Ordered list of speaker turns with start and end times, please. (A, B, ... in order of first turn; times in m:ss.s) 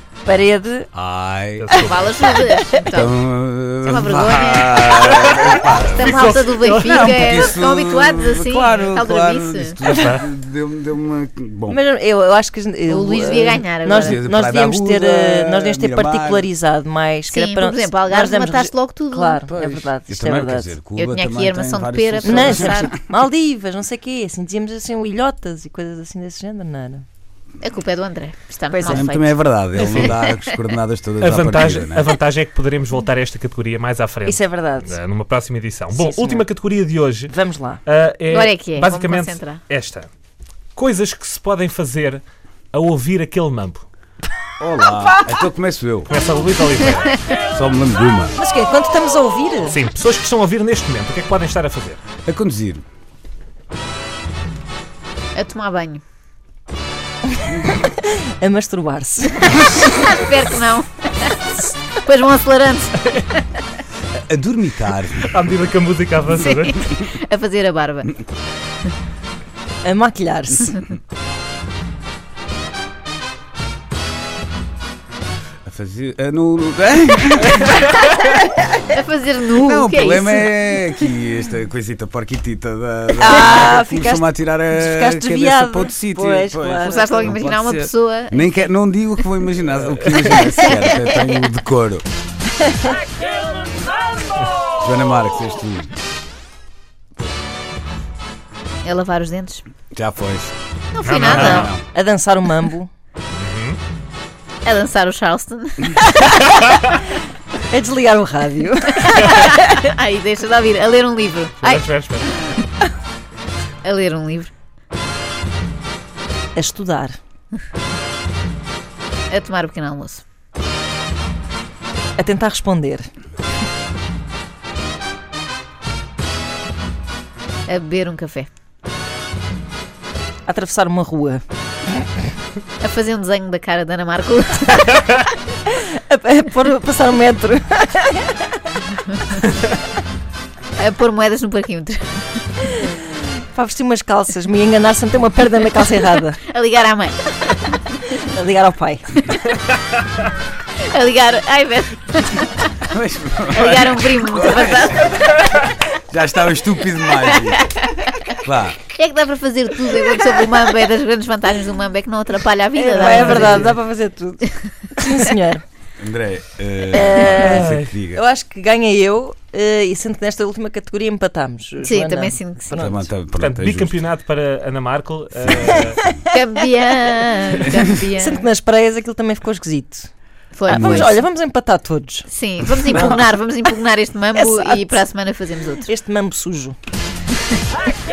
0:00.2-0:00.9 A
0:00.9-0:01.8 B
0:01.6-0:02.2 C
0:01.7-0:03.1 D
0:02.9-0:11.8 B
0:03.8-0:04.8 D
0:04.8-0:07.5 C
0:05.8-0:09.8 D
0:09.8-0:10.2 C
0:11.7-0:20.8 A
0:12.9-0:14.2 D
0:13.9-0:16.5 B
0:17.3-0:19.4 D
0:19.5-0:23.0 B
0:20.9-0:22.9 D
0:22.2-0:27.0 A
0:27.6-0:29.1 D
0:28.7-0:29.4 A
0:28.9-0:32.1 B
0:29.8-0:30.1 C
0:29.9-0:30.4 D
0:31.2-0:37.3 C
0:34.2-0:35.0 A
0:35.9-0:36.4 A
0:37.3-0:37.8 A
0:37.8-0:40.1 C
0:38.3-0:39.6 D
0:40.8-0:43.8 C
0:44.6-0:46.1 B
0:46.1-0:47.2 C
0:47.5-0:48.4 B
0:48.4-0:49.8 A
0:49.7-0:52.0 C
0:52.2-0:52.8 B
0:55.3-0:56.0 D
0:57.5-0:59.5 A
0:59.5-1:03.4 D
1:04.1-1:05.4 B
1:05.3-1:07.0 C
1:06.4-1:08.2 D
1:09.8-1:10.8 A
1:15.6-1:18.7 B
1:18.9-1:20.5 D
1:19.6-1:32.0 B
1:23.2-1:27.5 A
1:26.8-1:28.4 D
1:34.8-1:35.9 B
1:38.8-1:39.6 D
1:39.9-1:40.5 B
1:40.9-1:41.7 D
1:41.0-1:41.7 C
1:41.1-1:41.8 B
1:41.9-1:42.9 A
1:43.3-1:43.8 C
1:44.6-1:46.4 D
1:47.6-1:49.7 A
1:49.0-1:51.9 D
1:51.6-1:52.4 C
1:53.8-1:54.5 D
1:56.5-1:57.2 A
1:59.3-2:00.2 D
2:02.2-2:03.1 A
2:07.7-2:08.5 D
2:10.5-2:11.4 A
2:12.8-2:15.0 D
2:15.7-2:18.6 A
2:20.8-2:22.4 D
2:22.7-2:26.4 A
2:26.4-2:27.8 D
2:28.1-2:29.1 A
2:29.2-2:29.5 D
2:30.7-2:32.8 D
2:32.9-2:37.7 B
2:33.5-2:35.3 D
2:37.5-2:38.3 D
2:38.3-2:38.8 B
2:38.9-2:43.7 D
2:42.7-2:45.6 A
2:46.0-2:48.2 B
2:46.9-2:53.1 A
2:47.4-2:47.9 C
2:51.8-2:52.9 D
2:52.7-2:54.0 B
2:53.4-2:56.1 C
2:56.3-2:58.4 D
2:58.2-3:00.1 A
3:00.5-3:01.2 D
3:00.7-3:02.3 A
3:00.7-3:01.1 B
3:02.3-3:05.9 D
3:02.8-3:03.2 A
3:04.3-3:05.0 A
3:05.8-3:06.8 A